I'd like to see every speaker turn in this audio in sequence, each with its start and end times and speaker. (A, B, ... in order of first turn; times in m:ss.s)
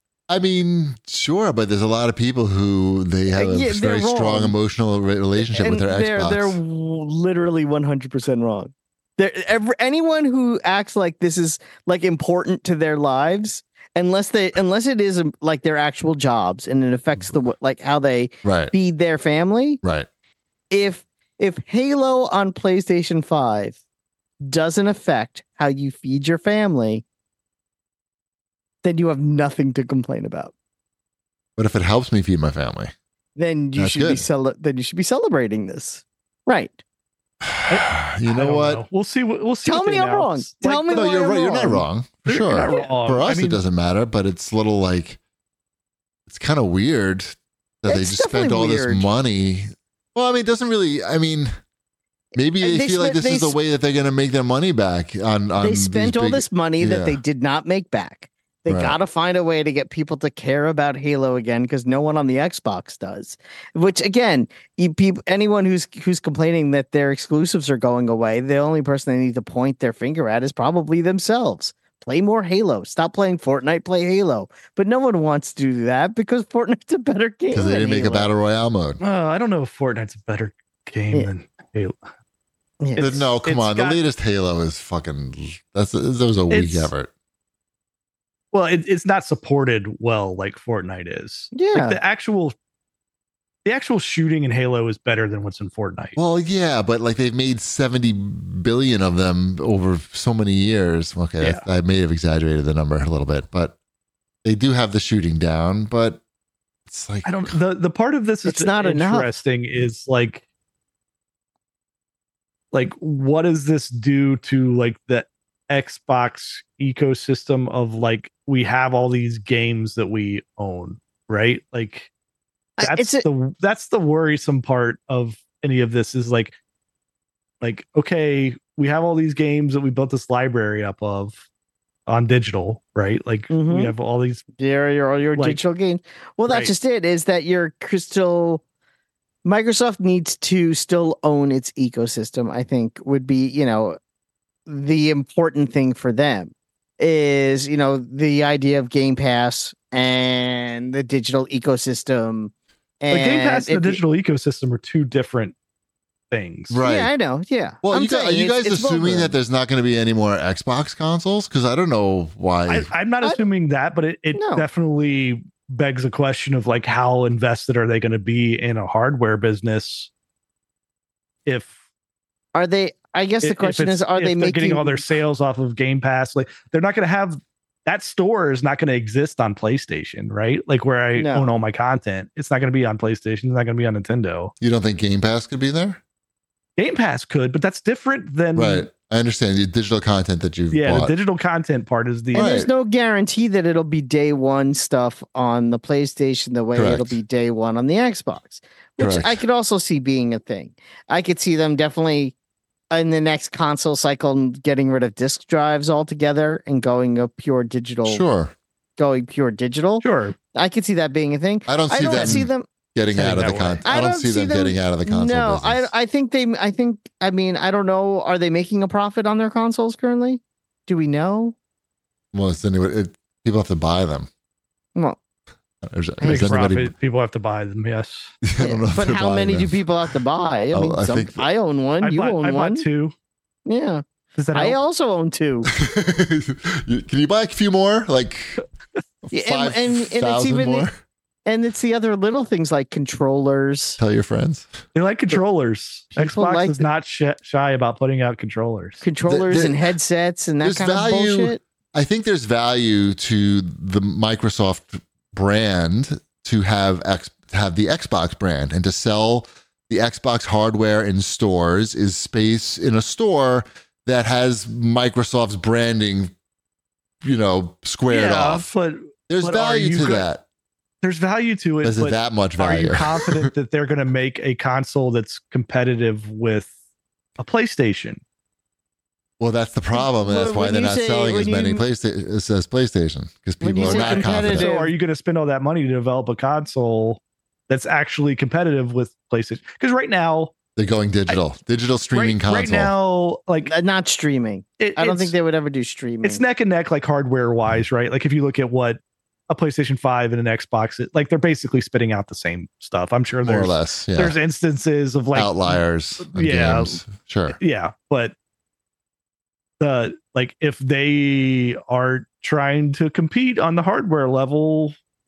0:00.3-0:06.6 A
0:03.3-0:04.6 B
0:05.5-0:19.8 B
0:18.4-0:18.7 A
0:20.7-0:23.8 B
0:24.4-0:27.0 B
0:28.8-0:30.5 B
0:31.6-0:32.9 A
0:33.4-0:36.8 B
0:33.8-0:34.3 A
0:37.4-0:38.8 A
0:37.7-0:41.1 C
0:39.6-0:41.8 B
0:40.9-0:45.2 A
0:42.3-0:43.6 C
0:46.3-0:51.5 A
0:47.9-0:49.1 B
0:52.3-0:57.2 A
0:52.6-0:53.6 B
0:55.6-1:18.3 B
0:58.7-0:59.0 A
1:17.5-1:19.0 A
1:19.0-1:22.0 C
1:22.8-1:23.2 B
1:23.0-1:24.0 C
1:23.0-1:27.1 A
1:26.5-1:26.9 C
1:28.5-1:32.5 C
1:31.5-1:32.0 B
1:33.6-1:36.2 C
1:36.2-1:43.8 A
1:41.4-1:41.6 C
1:44.4-1:46.2 A
1:46.9-1:47.6 A
1:47.2-1:50.4 C
1:48.4-1:49.3 B
1:52.7-2:02.1 C
2:02.8-2:03.3 B
2:02.8-2:06.5 C
2:07.6-2:11.4 C
2:12.1-2:14.4 C
2:13.5-2:13.9 B
2:14.6-2:18.6 B
2:16.5-2:16.7 C
2:19.4-2:24.0 B
2:24.7-2:34.0 B
2:33.1-2:35.6 C
2:36.3-2:36.8 C
2:36.7-2:37.1 A
2:36.8-2:39.3 B
2:37.8-2:42.9 A
2:42.7-2:50.1 C
2:44.3-2:44.6 B
2:51.4-2:51.7 C
2:52.5-2:55.0 B
2:53.4-3:04.5 C
3:01.2-3:01.5 B
3:04.6-3:06.0 A
3:06.8-3:08.9 C
3:08.6-3:11.1 A
3:10.7-3:12.5 C
3:12.3-3:22.3 B
3:12.3-3:12.7 A
3:16.8-3:17.1 A
3:19.0-3:19.4 A
3:22.9-3:28.2 B
3:28.0-3:28.5 A
3:29.0-3:32.7 B
3:30.0-3:30.4 C
3:31.7-3:35.9 A
3:32.1-3:32.5 C
3:33.1-3:33.8 C
3:33.8-3:41.6 B
3:42.3-3:44.3 A
3:45.8-3:46.9 A
3:46.2-3:46.5 B
3:46.2-3:48.3 C
3:48.4-3:49.7 A
3:48.6-3:52.8 B
3:50.7-3:51.5 A
3:52.0-3:53.1 C
3:53.6-3:54.0 B
3:54.4-3:54.8 C
3:54.5-3:55.7 B
3:55.7-3:58.6 A
3:59.2-4:00.9 A
3:59.3-4:00.9 B
4:01.4-4:04.0 B
4:04.0-4:04.7 A
4:04.9-4:09.0 C
4:06.2-4:06.8 B
4:09.0-4:11.6 B
4:09.2-4:09.9 A
4:10.6-4:26.3 A
4:27.2-4:28.7 A
4:28.1-4:30.3 C
4:29.3-4:30.4 A
4:31.0-4:36.7 C
4:31.8-4:33.5 A
4:37.4-4:38.2 C
4:39.4-4:44.7 A
4:39.9-4:41.8 B
4:43.6-4:44.9 B
4:43.8-4:50.5 C
4:50.8-4:52.9 A
4:52.1-4:53.7 C
4:53.6-4:56.4 B
4:54.8-4:55.3 C
4:56.2-5:07.0 C
5:03.4-5:04.4 A
5:05.3-5:07.6 A
5:07.6-5:08.3 C
5:09.8-5:14.9 C